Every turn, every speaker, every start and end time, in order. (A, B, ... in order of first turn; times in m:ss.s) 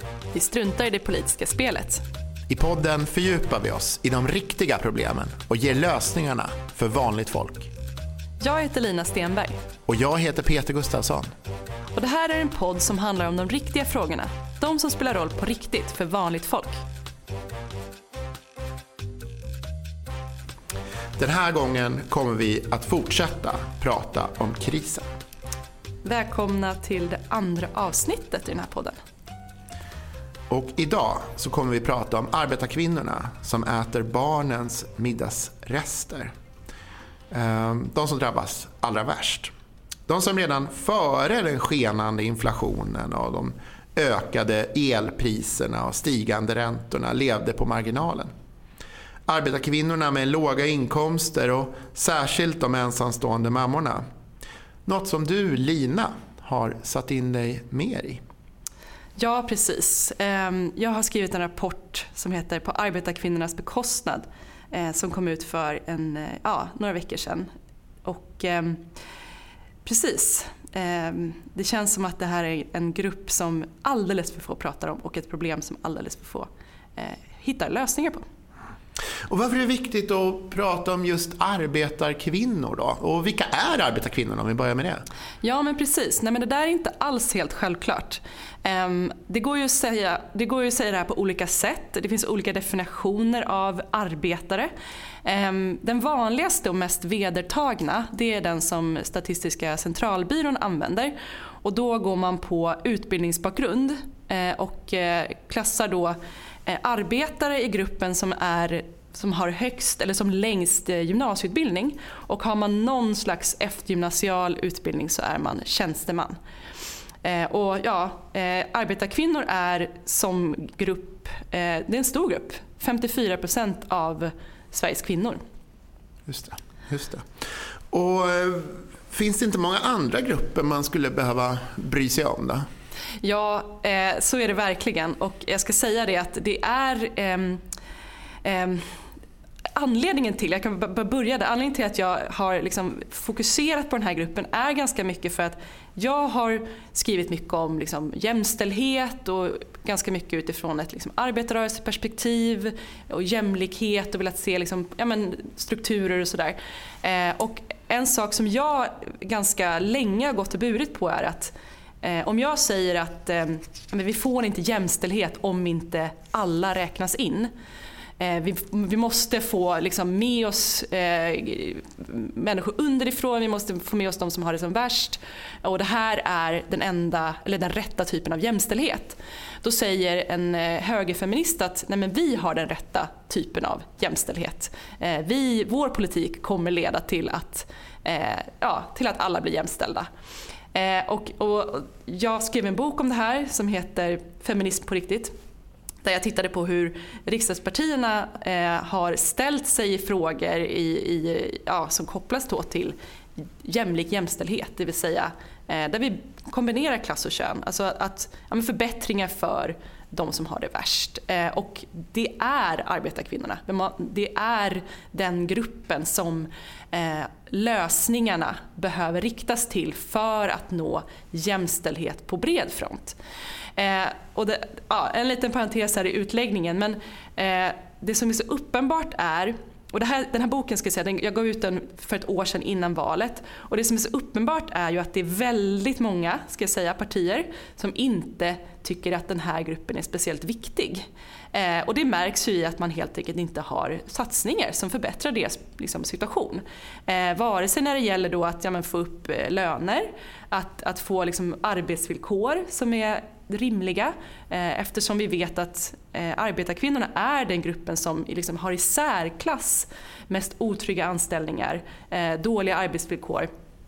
0:00.3-0:02.0 A
0:02.5-0:07.7 B
0:08.4-0:09.6 A
0:09.9-0:11.3 B
0:11.9-0:16.8 A
0:21.2-0:25.1 B
0:26.0-0:29.0 A
0:30.5-0:36.3 B
0:37.3-0:39.5 B
0:40.1-0:48.3 B
0:49.3-0:54.0 B
0:54.8-0:58.2 B
0:59.2-1:07.5 A
1:08.0-1:08.8 A
1:09.8-1:18.2 A
1:19.3-1:25.0 B
1:25.4-1:34.7 A
1:35.2-1:56.4 A
1:57.2-2:05.4 A
2:06.3-2:07.3 B
2:07.9-2:12.6 B
2:13.2-2:17.6 A
2:18.4-2:18.8 A
2:19.8-2:47.5 A
2:48.2-3:10.1 A
3:10.7-3:15.3 A
3:16.0-3:43.2 A
3:43.8-4:23.5 A